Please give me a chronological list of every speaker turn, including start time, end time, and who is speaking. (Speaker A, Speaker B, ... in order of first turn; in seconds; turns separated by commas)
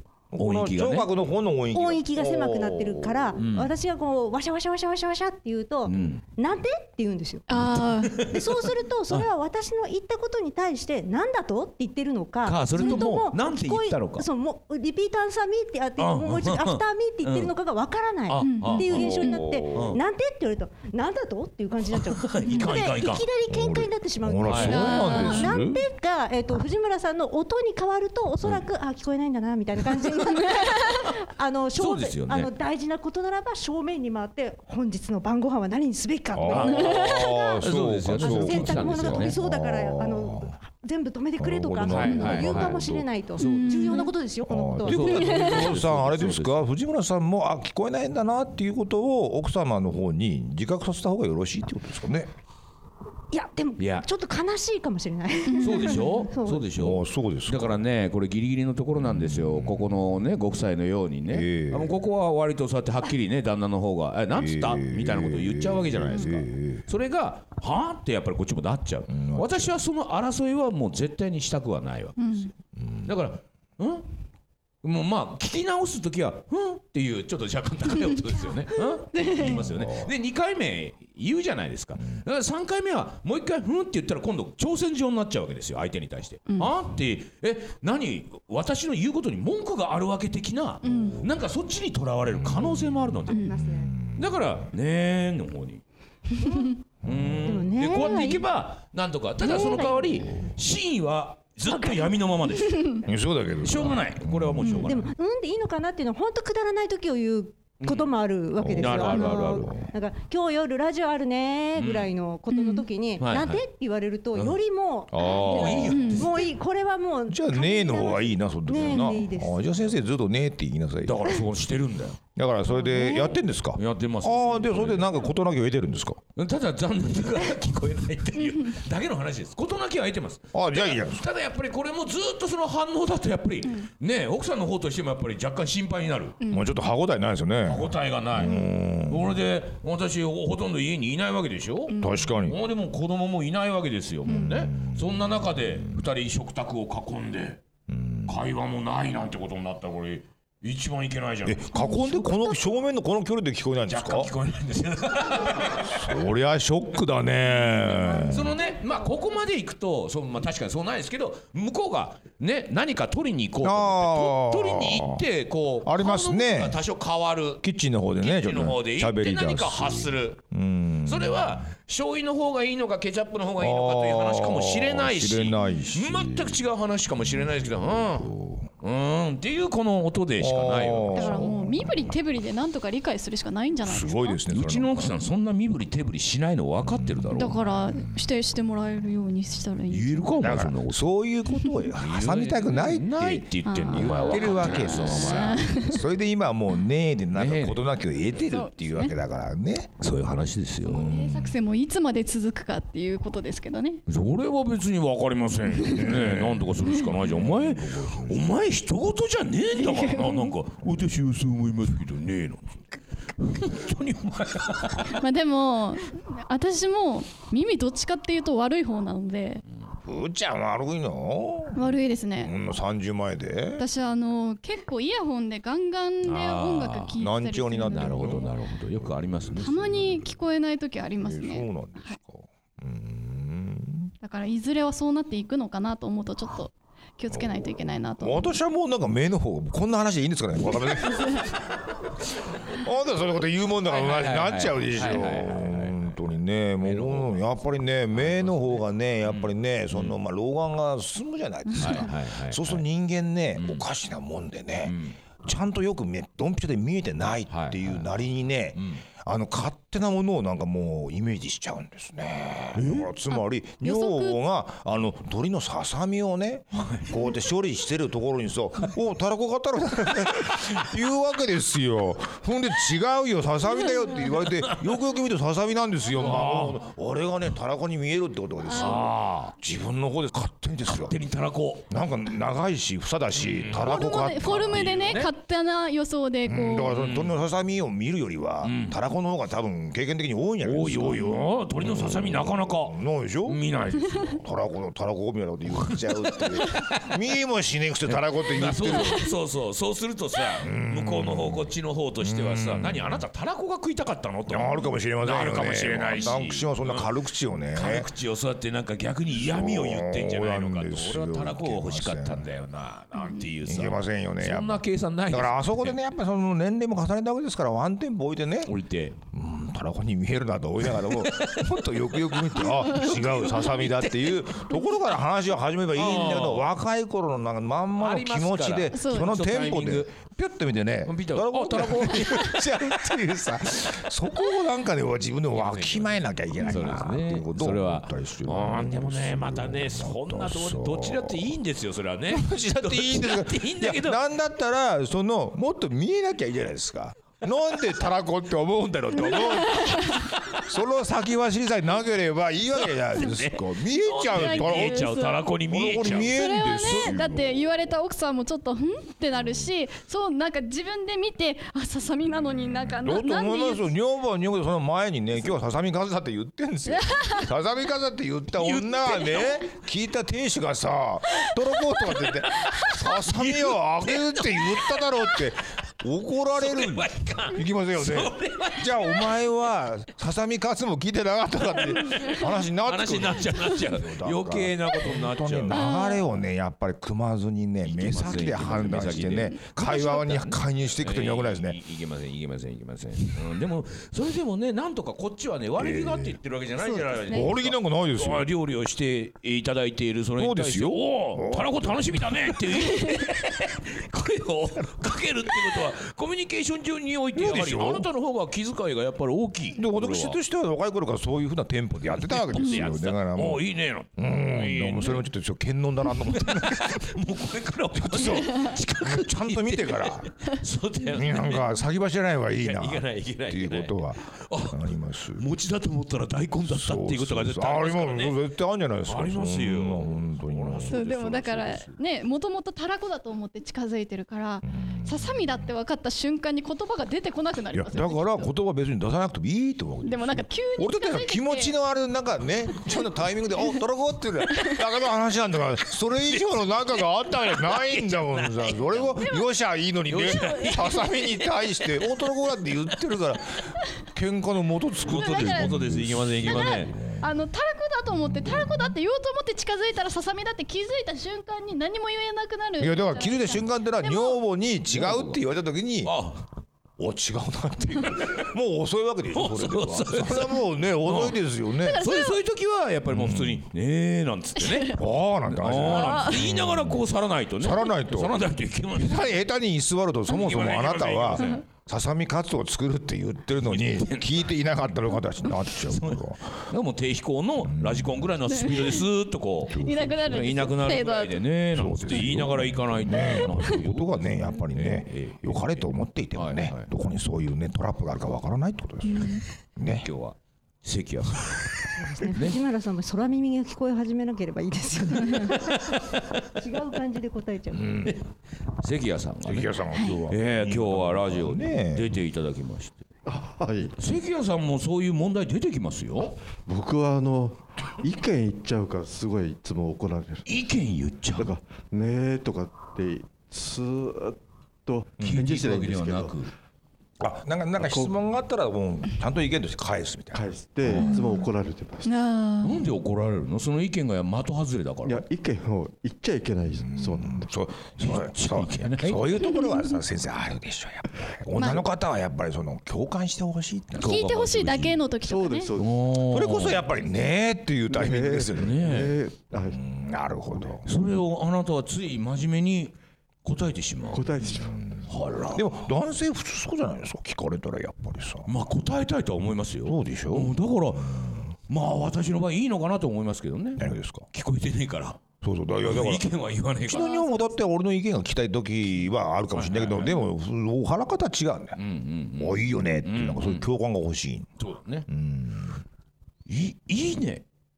Speaker A: 0.3-3.4, Speaker B: 0.4-1.1, Speaker C: 1.7-7.4, Speaker B: 3.4-3.7, Speaker B: 5.8-6.2, Speaker D: 7.5-8.3, Speaker B: 7.5-9.3, Speaker C: 8.2-37.6, Speaker B: 12.4-14.3, Speaker D: 12.8-13.1, Speaker B: 16.0-17.5, Speaker B: 18.3-20.0, Speaker D: 18.4-19.4, Speaker A: 18.8-20.0, Speaker B: 21.9-23.3, Speaker A: 23.5-25.9, Speaker B: 24.4-25.4, Speaker D: 24.6-25.5, Speaker B: 31.8-32.5, Speaker A: 36.3-40.5, Speaker B: 36.5-39.4, Speaker D: 37.1-37.4, Speaker C: 38.2-45.3, Speaker A: 41.4-43.1, Speaker B: 41.8-44.1, Speaker D: 43.4-44.1, Speaker A: 44.5-52.3, Speaker B: 44.9-46.7, Speaker D: 45.0-45.7, Speaker C: 53.3-56.7, Speaker B: 53.8-54.1, Speaker D: 55.5-56.1, Speaker B: 55.6-72.5, Speaker A: 56.8-57.8, Speaker A: 59.0-60.2, Speaker A: 61.3-62.0, Speaker A: 64.3-66.8, Speaker A: 69.1-69.8, Speaker D: 72.2-72.5, Speaker A: 72.8-73.1, Speaker B: 73.0-74.1, Speaker B: 74.8-93.5, Speaker D: 79.1-79.6, Speaker A: 79.4-80.1, Speaker D: 90.8-91.2, Speaker A: 90.9-91.3, Speaker A: 92.3-94.7, Speaker D: 93.3-93.6, Speaker C: 93.3-94.0, Speaker B: 94.2-95.8, Speaker C: 96.4-96.8, Speaker A: 97.0-97.9, Speaker B: 97.0-103.0, Speaker C: 97.5-98.5, Speaker C: 99.4-100.5, Speaker A: 100.2-100.5, Speaker C: 101.7-102.2, Speaker D: 102.7-103.0, Speaker A: 103.0-104.9, Speaker B: 103.6-105.1, Speaker D: 104.6-104.9, Speaker C: 104.9-119.7, Speaker B: 107.8-108.1, Speaker A: 108.6-109.9, Speaker B: 108.7-109.7, Speaker B: 111.8-112.1, Speaker D: 112.5-112.9, Speaker B: 113.2-113.6, Speaker A: 115.1-116.2, Speaker B: 115.2-116.5, Speaker D: 115.9-116.3, Speaker A: 117.3-121.4, Speaker B: 121.0-122.2, Speaker A: 122.3-126.2, Speaker B: 123.8-125.3, Speaker B: 126.4-136.4, Speaker D: 128.4-128.7, Speaker A: 130.5-131.2, Speaker D: 136.4-136.7, Speaker A: 136.5-139.4, Speaker B: 137.7-147.6, Speaker D: 138.4-138.7, Speaker D: 141.9-142.3, Speaker A: 142.0-142.6, Speaker A: 144.3-146.1, Speaker A: 147.9-148.4, Speaker B: 148.3-151.9, Speaker A: 151.4-154.3, Speaker C: 151.8-152.3, Speaker B: 153.9-156.2, Speaker A: 155.6-158.6, Speaker B: 157.8-167.6, Speaker A: 163.6-165.2, Speaker A: 165.8-166.8, Speaker A: 167.6-171.7, Speaker B: 168.2-170.4, Speaker B: 171.1-178.3, Speaker A: 173.6-176.6, Speaker A: 177.2-178.7, Speaker B: 178.8-181.5, Speaker A: 180.4-182.2, Speaker D: 181.1-184.4, Speaker A: 183.8-185.2, Speaker B: 184.5-187.6, Speaker A: 186.8-187.8, Speaker D: 187.3-190.5, Speaker B: 189.9-191.1, Speaker A: 190.4-199.9, Speaker D: 191.5-191.9, Speaker B: 192.0-195.7, Speaker D: 193.7-196.0, Speaker B: 197.3-197.8, Speaker D: 198.5-199.1, Speaker B: 200.0-201.2, Speaker A: 200.8-201.6, Speaker D: 201.0-204.0, Speaker B: 204.1-212.8, Speaker A: 205.9-208.5, Speaker D: 209.8-210.5, Speaker B: 213.4-215.2, Speaker D: 215.1-219.6, Speaker A: 220.1-221.9, Speaker D: 221.8-222.5, Speaker A: 222.4-223.8, Speaker D: 223.8-228.5, Speaker B: 226.2-227.2, Speaker A: 227.2-230.3, Speaker B: 227.9-230.1, Speaker D: 229.6-232.2, Speaker A: 231.2-234.1, Speaker D: 234.2-238.6, Speaker A: 237.3-241.6, Speaker A: 242.7-281.2, Speaker B: 243.9-246.1, Speaker B: 246.8-247.4, Speaker B: 248.1-250.2, Speaker D: 251.7-252.0, Speaker B: 251.8-252.8, Speaker B: 253.6-253.8, Speaker B: 254.8-255.2, Speaker B: 257.5-258.1, Speaker B: 258.8-259.0, Speaker B: 262.8-263.1, Speaker D: 263.3-264.4, Speaker B: 266.8-267.2, Speaker B: 274.5-274.9, Speaker B: 276.2-276.8, Speaker B: 278.7-279.6, Speaker B: 280.9-281.9, Speaker A: 281.9-285.2, Speaker B: 283.4-285.3, Speaker D: 283.8-287.0, Speaker A: 286.5-293.6, Speaker B: 286.9-287.4, Speaker B: 288.6-289.0, Speaker B: 290.6-294.4, Speaker A: 294.2-299.2, Speaker B: 295.7-297.1, Speaker B: 298.1-307.1, Speaker D: 299.0-299.2, Speaker A: 300.6-303.3, Speaker A: 304.5-308.1, Speaker B: 307.7-316.0, Speaker A: 309.3-312.5, Speaker A: 313.6-318.8, Speaker B: 318.7-319.2, Speaker A: 319.3-341.6, Speaker B: 320.9-324.7, Speaker B: 325.9-326.7, Speaker B: 328.0-330.1, Speaker D: 328.9-329.3, Speaker B: 331.1-333.0, Speaker B: 335.5-344.2, Speaker A: 342.3-355.1, Speaker D: 349.3-350.2, Speaker B: 350.2-350.6, Speaker B: 353.1-356.3, Speaker D: 354.3-355.5, Speaker A: 355.7-357.7, Speaker D: 356.1-363.9, Speaker A: 359.4-359.7, Speaker A: 362.6-391.8, Speaker D: 366.9-367.5, Speaker B: 368.6-369.8, Speaker B: 372.8-375.4, Speaker B: 376.6-379.3, Speaker B: 382.8-385.9, Speaker D: 385.7-386.2, Speaker B: 387.8-410.4, Speaker A: 395.8-396.4, Speaker A: 397.3-398.5, Speaker A: 400.4-402.8, Speaker A: 407.3-408.1, Speaker A: 409.7-413.6, Speaker B: 412.0-415.3, Speaker A: 414.2-417.2, Speaker B: 416.2-421.7, Speaker A: 417.9-420.3, Speaker A: 421.1-425.4, Speaker B: 422.5-428.4, Speaker A: 426.6-431.0, Speaker B: 429.1-432.0, Speaker D: 430.9-438.5, Speaker A: 434.6-435.7, Speaker A: 437.7-457.3, Speaker D: 440.0-441.8, Speaker B: 446.2-449.2, Speaker D: 449.2-449.5, Speaker B: 450.1-451.2, Speaker D: 450.2-451.5, Speaker B: 455.1-456.9, Speaker D: 455.1-455.9, Speaker D: 456.4-464.4, Speaker A: 458.1-459.0, Speaker A: 462.8-466.1, Speaker B: 464.9-465.4, Speaker B: 466.0-466.5, Speaker A: 467.0-472.1, Speaker B: 469.3-471.4, Speaker D: 471.8-472.4, Speaker B: 472.0-479.4, Speaker A: 473.1-473.6, Speaker D: 474.6-474.9, Speaker A: 474.9-477.1, Speaker D: 476.0-476.3, Speaker A: 477.6-478.4, Speaker A: 478.9-486.5, Speaker B: 480.3-481.6, Speaker B: 483.6-484.5, Speaker B: 485.7-496.9, Speaker A: 487.6-488.4, Speaker D: 488.5-489.1, Speaker A: 489.7-490.5, Speaker D: 489.7-491.4, Speaker A: 491.7-500.1, Speaker D: 493.1-493.6, Speaker D: 499.1-499.4, Speaker B: 499.9-502.6, Speaker C: 501.9-508.1, Speaker B: 505.5-506.5, Speaker A: 507.7-508.2, Speaker B: 508.8-513.0, Speaker A: 509.4-512.1, Speaker D: 509.9-510.2, Speaker E: 513.3-514.0, Speaker B: 514.0-516.4, Speaker E: 516.7-520.5, Speaker B: 520.5-521.5, Speaker E: 521.3-526.4, Speaker B: 525.2-526.5, Speaker A: 527.2-531.1, Speaker E: 527.8-528.1, Speaker E: 530.3-532.1, Speaker D: 531.0-531.5, Speaker D: 532.0-532.9, Speaker B: 532.6-535.2, Speaker E: 535.0-537.5, Speaker A: 536.8-544.2, Speaker B: 538.0-539.3, Speaker D: 539.5-539.9, Speaker D: 541.6-541.8, Speaker B: 543.9-545.0, Speaker D: 544.0-545.7, Speaker E: 545.2-546.0, Speaker B: 545.8-546.9, Speaker A: 546.2-548.9, Speaker E: 547.9-549.8, Speaker B: 548.5-549.2, Speaker A: 549.7-550.9, Speaker B: 550.9-554.4, Speaker E: 554.1-554.8, Speaker A: 554.6-558.5, Speaker B: 555.1-555.7, Speaker B: 558.5-565.2, Speaker A: 559.9-561.5, Speaker A: 563.8-564.3, Speaker A: 565.4-566.3, Speaker B: 565.8-567.3, Speaker A: 566.8-571.8, Speaker B: 569.5-570.3, Speaker B: 571.8-573.7, Speaker A: 572.4-574.5, Speaker B: 574.6-575.1, Speaker A: 575.1-575.8, Speaker B: 576.5-577.5